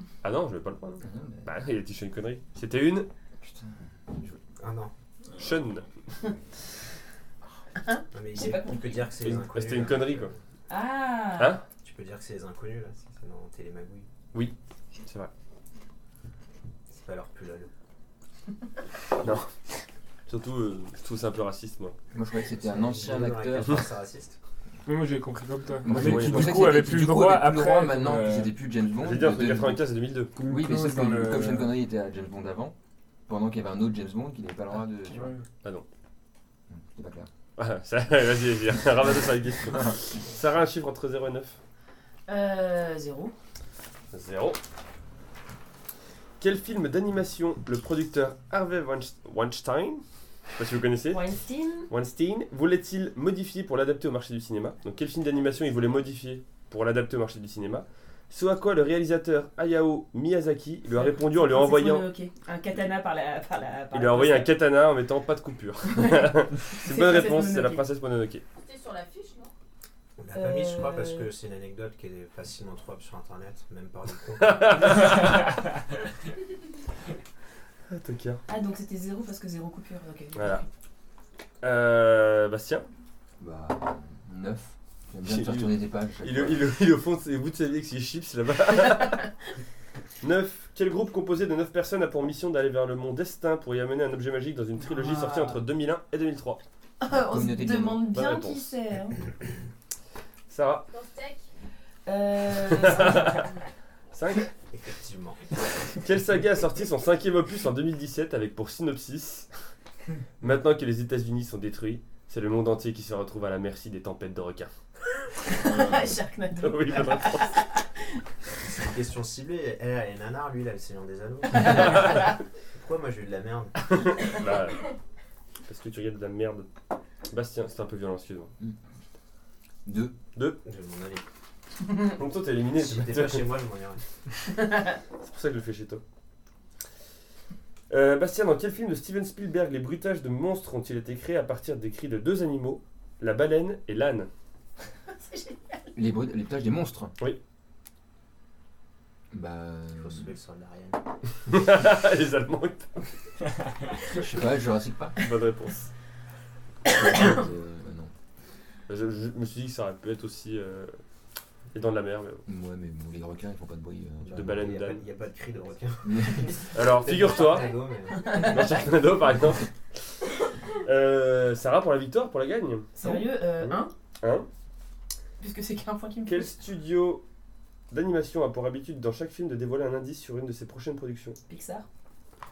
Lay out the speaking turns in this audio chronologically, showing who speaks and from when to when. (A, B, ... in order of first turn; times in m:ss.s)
0:00.2-0:03.1 A
0:01.0-0:01.5 B
0:03.4-0:03.9 B
0:04.6-0:04.9 C
0:05.4-0:05.9 A
0:07.8-0:09.1 D
0:08.1-0:10.4 C
0:09.2-0:10.3 A
0:10.7-0:11.6 D
0:11.4-0:11.6 A
0:11.8-0:14.1 C
0:15.0-0:15.3 A
0:16.9-0:17.7 C
0:19.2-0:19.5 A
0:20.3-0:22.0 A
0:22.1-0:23.8 B
0:22.5-0:24.4 C
0:24.8-0:28.5 E
0:25.8-0:29.8 B
0:25.8-0:26.7 A
0:29.0-0:30.3 A
0:30.4-0:31.8 E
0:30.4-0:32.7 B
0:33.3-0:35.3 B
0:35.1-0:35.4 E
0:36.7-0:37.3 B
0:37.6-0:41.6 A
0:42.3-0:43.3 D
0:44.1-0:44.6 A
0:46.4-0:50.0 A
0:50.6-0:51.2 A
0:51.1-0:51.9 D
0:51.9-1:02.0 A
1:00.9-1:04.5 D
1:03.9-1:08.4 A
1:05.9-1:07.8 D
1:08.6-1:09.5 F
1:10.2-1:15.0 C
1:10.3-1:11.3 D
1:14.4-1:15.5 A
1:17.9-1:18.4 A
1:18.5-1:20.6 D
1:20.4-1:20.6 A
1:21.6-1:22.9 A
1:23.4-1:26.7 B
1:25.2-1:29.3 A
1:30.2-1:36.6 A
1:34.8-1:35.6 D
1:37.0-1:39.2 D
1:37.1-1:38.0 B
1:38.1-1:38.8 A
1:40.5-1:40.9 A
1:40.9-1:41.4 F
1:42.0-1:43.5 D
1:42.7-1:43.4 A
1:44.1-1:44.5 A
1:44.7-1:45.9 C
1:46.0-1:49.5 A
1:50.4-1:54.7 A
1:55.4-1:57.8 D
1:56.6-1:57.6 A
1:58.6-2:03.9 C
2:01.6-2:02.2 A
2:03.9-2:04.9 A
2:05.7-2:06.7 A
2:07.3-2:08.5 A
2:09.8-2:10.1 B
2:10.6-2:11.2 C
2:12.1-2:13.5 A
2:12.8-2:14.0 C
2:15.2-2:16.0 A
2:17.9-2:24.3 A
2:25.1-2:25.9 D
2:25.9-2:27.1 B
2:29.3-2:30.3 B
2:29.9-2:31.0 C
2:31.5-2:33.1 A
2:34.0-2:35.2 B
2:35.2-2:35.9 A
2:36.9-2:38.1 B
2:38.9-2:41.0 A
2:41.7-2:42.4 A
2:42.5-2:44.6 B
2:44.3-2:45.0 A
2:44.4-2:48.6 C
2:46.0-2:46.5 B
2:46.7-2:47.8 A
2:47.4-2:47.8 F
2:48.2-2:48.6 D
2:48.4-2:49.7 A
2:50.8-2:54.5 A
2:52.9-2:53.9 D
2:55.4-2:56.5 D
2:56.3-2:57.2 A
2:57.9-3:01.4 A
3:01.5-3:01.8 D